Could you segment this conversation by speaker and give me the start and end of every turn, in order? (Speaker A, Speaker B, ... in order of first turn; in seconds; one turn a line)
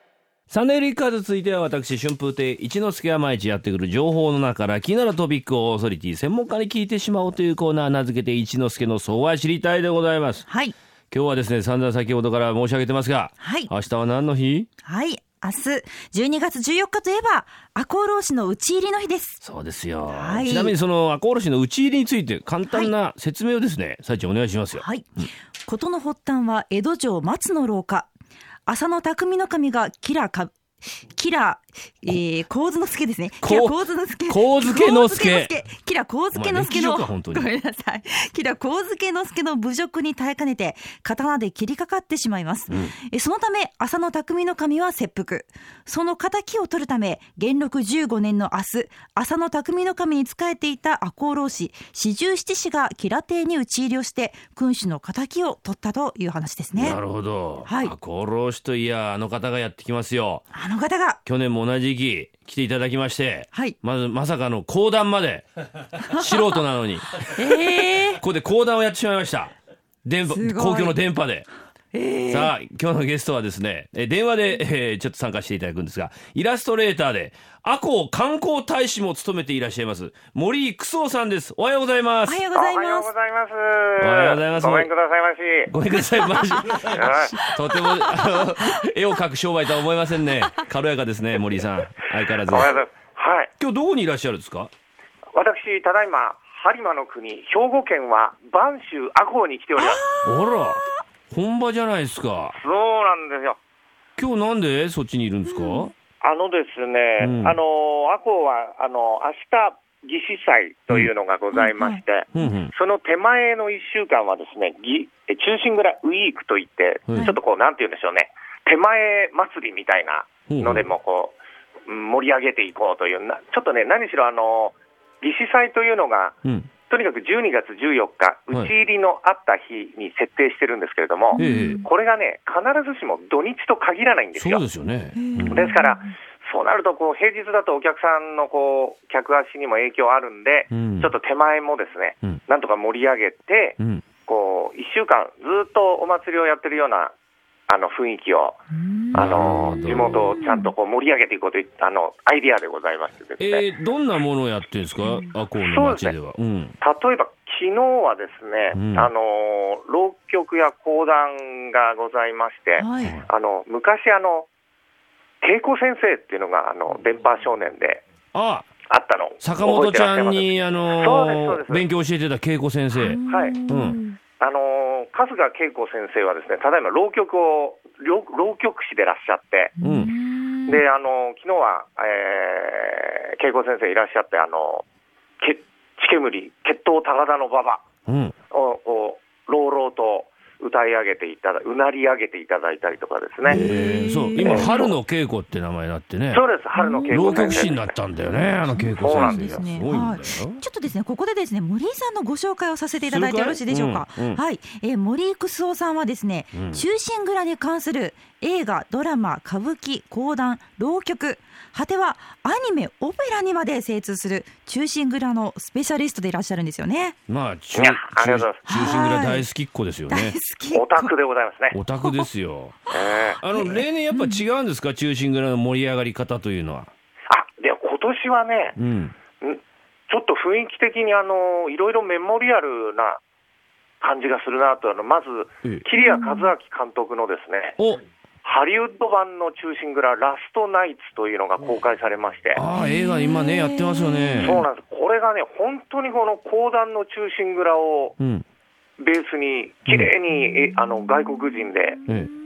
Speaker A: 0.5-10.4
Speaker B: 10.5-10.7
Speaker A: 11.1-14.7
Speaker B: 13.4-13.7
Speaker B: 14.8-19.4
Speaker A: 19.4-25.3
Speaker B: 20.1-20.8
Speaker B: 24.8-28.1
Speaker B: 28.7-57.0
Speaker A: 33.4-35.5
Speaker A: 36.3-37.5
Speaker A: 42.7-42.9
Speaker A: 56.7-60.4
Speaker B: 57.6-57.9
Speaker B: 60.5-61.2
Speaker A: 61.2-65.5
Speaker B: 66.0-66.3
Speaker A: 66.1-69.5
Speaker B: 67.2-68.2
Speaker A: 70.0-71.5
Speaker B: 70.3-71.0
Speaker B: 71.9-72.5
Speaker A: 72.3-82.4
Speaker B: 82.2-83.1
Speaker C: 82.5-85.7
Speaker A: 84.0-84.9
Speaker A: 85.7-92.8
Speaker C: 86.7-87.4
Speaker B: 87.7-88.1
Speaker C: 92.5-93.5
Speaker A: 93.6-94.7
Speaker C: 95.3-100.0
Speaker B: 99.8-100.8
Speaker A: 100.2-102.6
Speaker C: 102.6-103.6
Speaker A: 104.2-105.9
Speaker B: 105.5-105.9
Speaker C: 106.2-126.4
Speaker A: 107.2-107.6
Speaker B: 111.5-112.5
Speaker A: 112.3-112.7
Speaker A: 117.1-117.3
Speaker A: 120.5-120.9
Speaker A: 126.4-126.7
Speaker C: 126.9-134.6
Speaker B: 131.3-131.9
Speaker A: 131.4-131.8
Speaker A: 134.3-135.7
Speaker B: 135.1-136.1
Speaker C: 135.5-147.1
Speaker A: 140.7-141.1
Speaker C: 147.7-153.6
Speaker B: 148.7-149.8
Speaker A: 149.1-150.4
Speaker B: 150.3-150.7
Speaker A: 153.4-156.7
Speaker B: 155.0-155.3
Speaker C: 155.5-156.2
Speaker C: 156.8-164.5
Speaker A: 158.7-159.1
Speaker B: 162.8-163.2
Speaker A: 163.0-163.3
Speaker C: 165.4-168.0
Speaker A: 168.3-168.7
Speaker C: 168.9-171.9
Speaker A: 169.4-174.0
Speaker B: 172.9-174.2
Speaker C: 173.3-173.6
Speaker C: 174.4-179.7
Speaker B: 179.8-180.8
Speaker A: 179.8-180.1
Speaker C: 180.7-184.8
Speaker C: 185.4-187.8
Speaker A: 188.1-188.3
Speaker C: 188.5-193.6
Speaker B: 193.4-194.9
Speaker A: 193.5-196.4
Speaker C: 194.4-195.0
Speaker C: 196.3-197.9
Speaker B: 196.7-197.7
Speaker A: 197.1-200.6
Speaker B: 198.7-217.2
Speaker C: 199.0-199.8
Speaker A: 203.0-204.4
Speaker A: 206.5-206.8
Speaker A: 217.3-220.4
Speaker C: 217.7-218.6
Speaker B: 218.7-219.5
Speaker B: 220.1-221.1
Speaker C: 220.7-221.8
Speaker A: 221.7-222.8
Speaker B: 222.9-224.4
Speaker C: 222.9-223.4
Speaker A: 223.4-226.9
Speaker C: 227.3-228.8
Speaker A: 228.8-229.1
Speaker C: 229.4-233.2
Speaker C: 234.0-237.8
Speaker B: 235.9-236.5
Speaker A: 237.8-238.0
Speaker C: 238.4-242.6
Speaker A: 242.5-244.6
Speaker B: 242.7-244.7
Speaker C: 244.4-248.2
Speaker A: 248.2-248.4
Speaker C: 249.0-252.1
Speaker A: 252.1-252.3